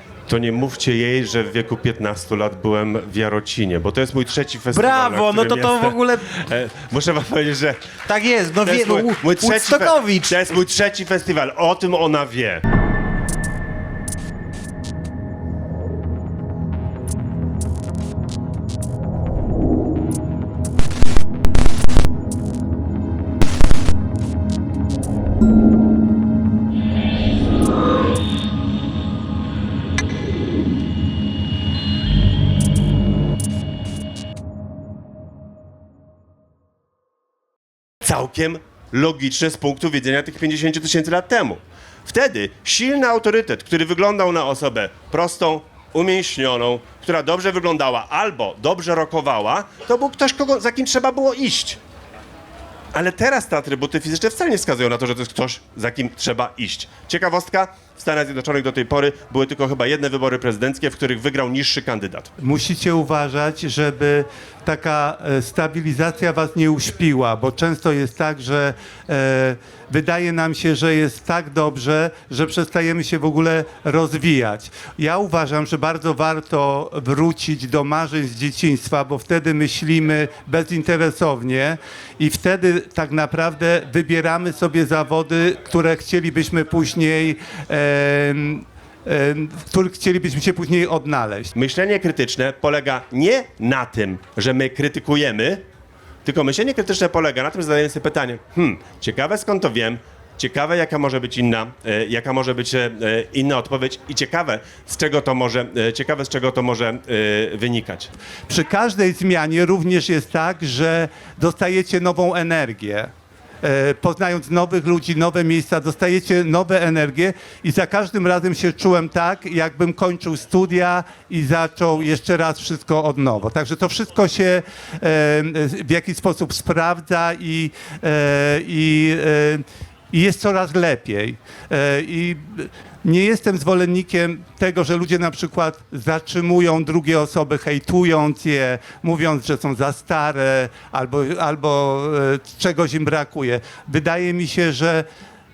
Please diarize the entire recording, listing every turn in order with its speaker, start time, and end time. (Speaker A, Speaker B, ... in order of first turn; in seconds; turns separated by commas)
Speaker A: 0.3-8.0, Speaker B: 4.7-6.3, Speaker B: 8.1-10.4, Speaker A: 8.6-12.6, Speaker A: 38.0-51.8, Speaker A: 52.9-62.3, Speaker C: 62.4-91.5, Speaker A: 91.5-95.6, Speaker A: 96.2-108.1, Speaker C: 108.5-113.1, Speaker C: 113.6-145.1